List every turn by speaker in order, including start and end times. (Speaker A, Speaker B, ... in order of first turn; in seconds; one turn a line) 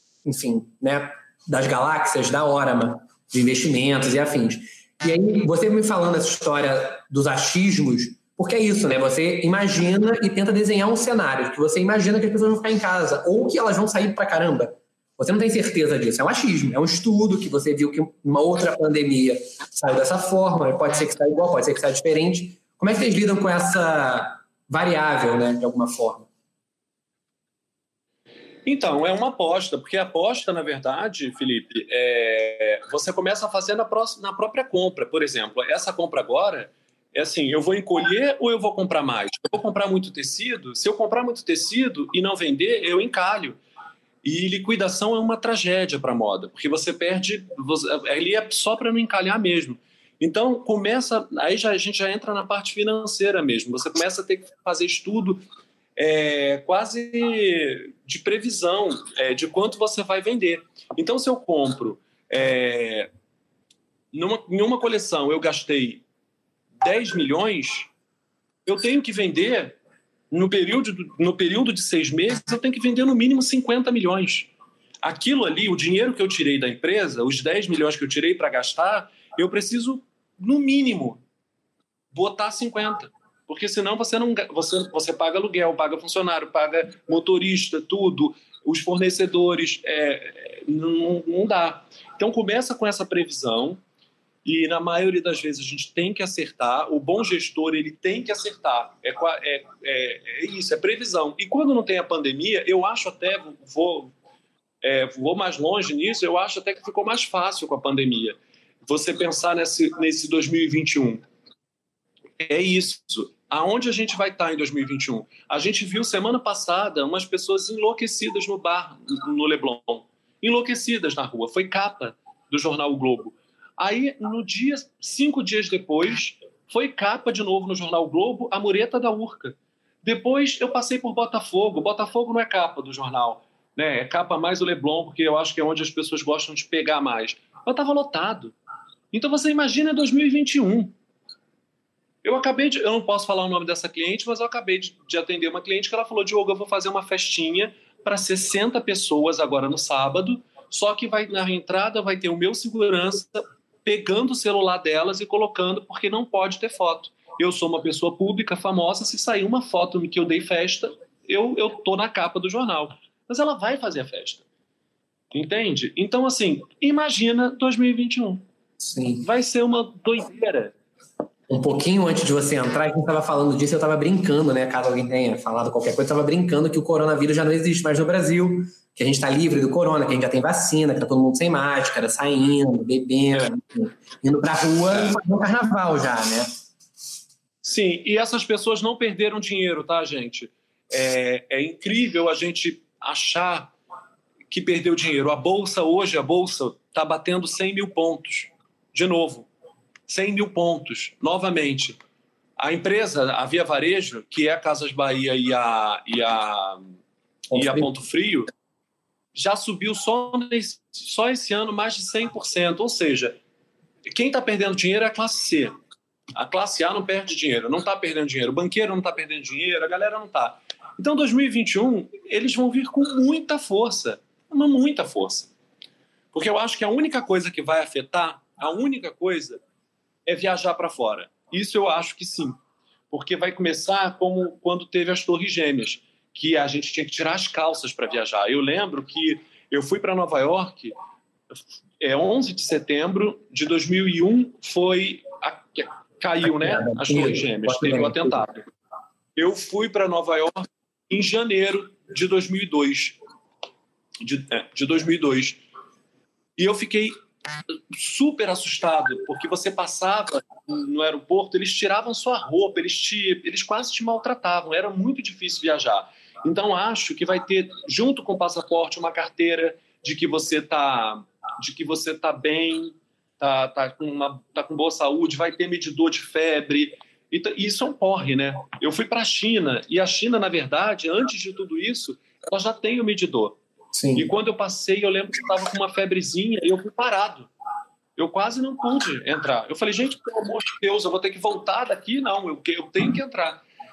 Speaker A: 0.2-26.3
Speaker B: 28.7-43.6
Speaker B: 44.2-55.4
Speaker B: 56.0-63.1
Speaker B: 64.1-66.0
Speaker B: 66.8-67.9
Speaker B: 68.7-69.8
Speaker B: 70.3-74.5
Speaker B: 75.0-81.2
Speaker B: 82.1-93.8
Speaker B: 94.5-104.1
Speaker B: 104.8-111.2
Speaker B: 112.4-138.6
Speaker B: 139.1-140.9
Speaker B: 142.2-164.4
Speaker B: 165.3-168.4
Speaker A: 168.8-169.2
Speaker B: 169.2-170.8
Speaker A: 171.5-186.5
Speaker B: 187.6-193.7
Speaker B: 194.5-199.5
Speaker B: 200.1-202.0
Speaker B: 202.6-206.9
Speaker A: 207.5-207.9
Speaker B: 207.5-208.5
Speaker B: 209.3-213.4
Speaker B: 214.1-215.7
Speaker B: 216.4-225.5
Speaker B: 226.3-229.6
Speaker B: 230.3-232.6
Speaker B: 233.1-240.9
Speaker B: 242.0-248.7
Speaker A: 246.4-248.4
Speaker B: 249.4-253.2
Speaker B: 254.2-255.6
Speaker B: 256.6-257.1
Speaker B: 257.9-283.6
Speaker A: 283.9-284.3
Speaker B: 284.2-287.5
Speaker B: 288.2-293.6